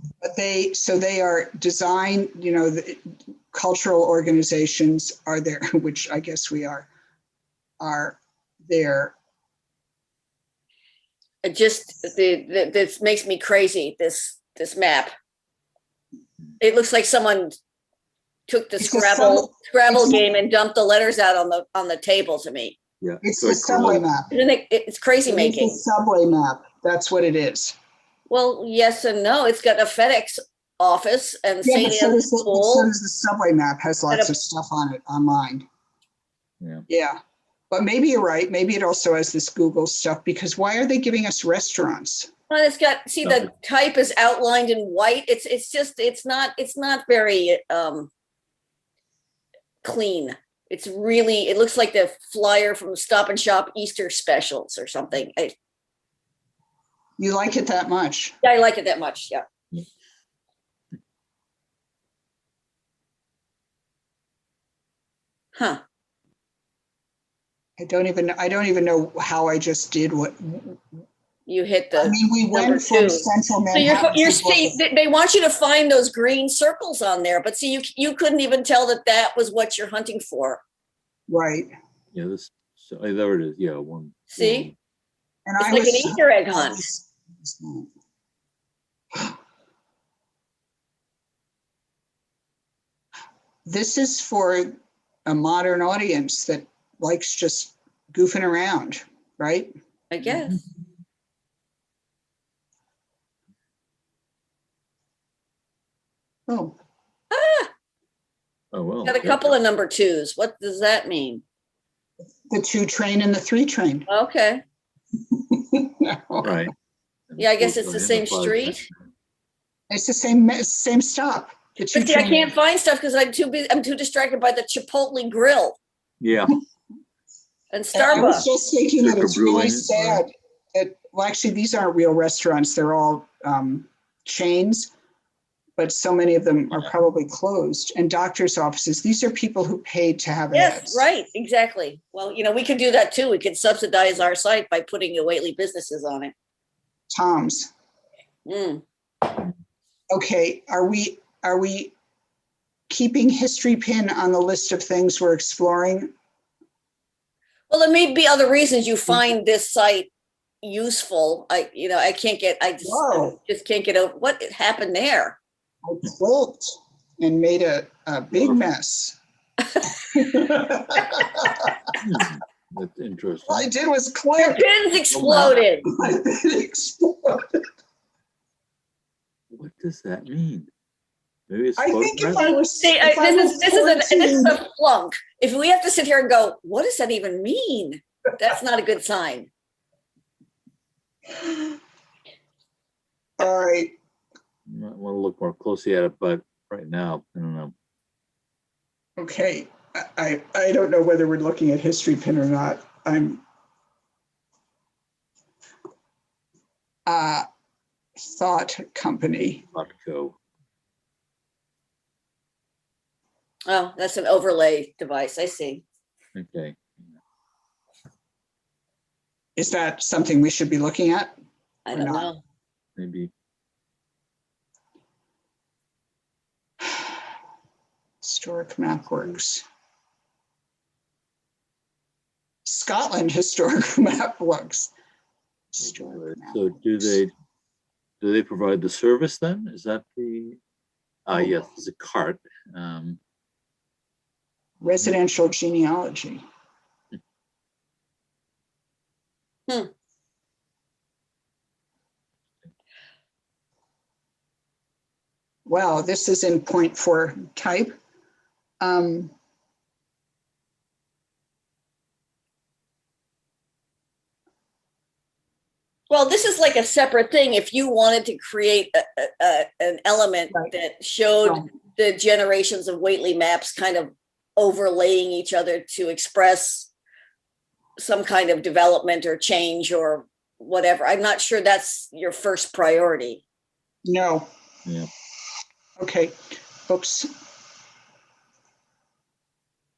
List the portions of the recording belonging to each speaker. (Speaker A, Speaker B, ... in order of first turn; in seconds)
Speaker A: 0.2-6.9, 7.8-9.1, 18.8-20.3, 23.2-24.3, 25.3-27.8, 31.6-35.7, 36.9-37.2, 37.7-42.3, 57.2-58.3, 67.8-70.8, 72.0-74.8, 81.3-81.7, 85.5-87.9, 93.6-99.7, 106.5-106.8, 112.5-114.1, 115.3-116.5, 119.9-122.5, 127.9-134.9, 135.8-141.1, 147.1-147.7, 150.1-151.9, 152.9-156.1, 162.8-163.3, 165.8-169.2, 170.1-171.7, 173.5-174.6, 175.8-177.6, 181.8-184.6, 193.4-193.9, 199.2-203.4, 207.1-207.4, 208.2-209.7, 219.6-221.3, 221.9-222.3, 228.2-229.6, 232.7-234.9, 235.7-237.1, 244.8-246.4, 255.7-257.9, 258.8-259.3, 284.1-284.5, 286.0-286.4, 286.9-287.3
Speaker B: 11.4-15.1, 16.6-17.6, 18.5-22.8, 24.3-25.8, 28.3-32.9, 34.1-34.4, 42.5-48.1, 49.8-55.5, 58.4-59.4, 65.5-65.8, 71.5-80.6, 84.3-84.7, 85.6-86.9, 100.1-100.6, 107.3-107.7, 109.0-111.4, 114.1-114.6, 117.4-118.8, 121.8-125.8, 127.7-128.5, 140.5-146.3, 148.4-148.8, 157.7-160.1, 160.6-165.4, 174.4-175.9, 182.3-189.5, 213.7-215.8, 221.8-222.4, 266.1-276.9, 278.0-283.4
Speaker C: 23.0-24.1, 43.2-43.5, 82.1-84.7, 108.7-109.6, 116.4-116.7, 117.3-118.9, 126.2-126.5, 129.0-130.2, 168.3-168.6, 172.0-173.7, 175.1-175.6, 179.5-180.7, 181.5-182.5, 194.7-197.7, 209.7-210.4, 216.3-217.2, 223.0-223.3, 235.8-237.3, 238.2-240.6, 241.2-243.2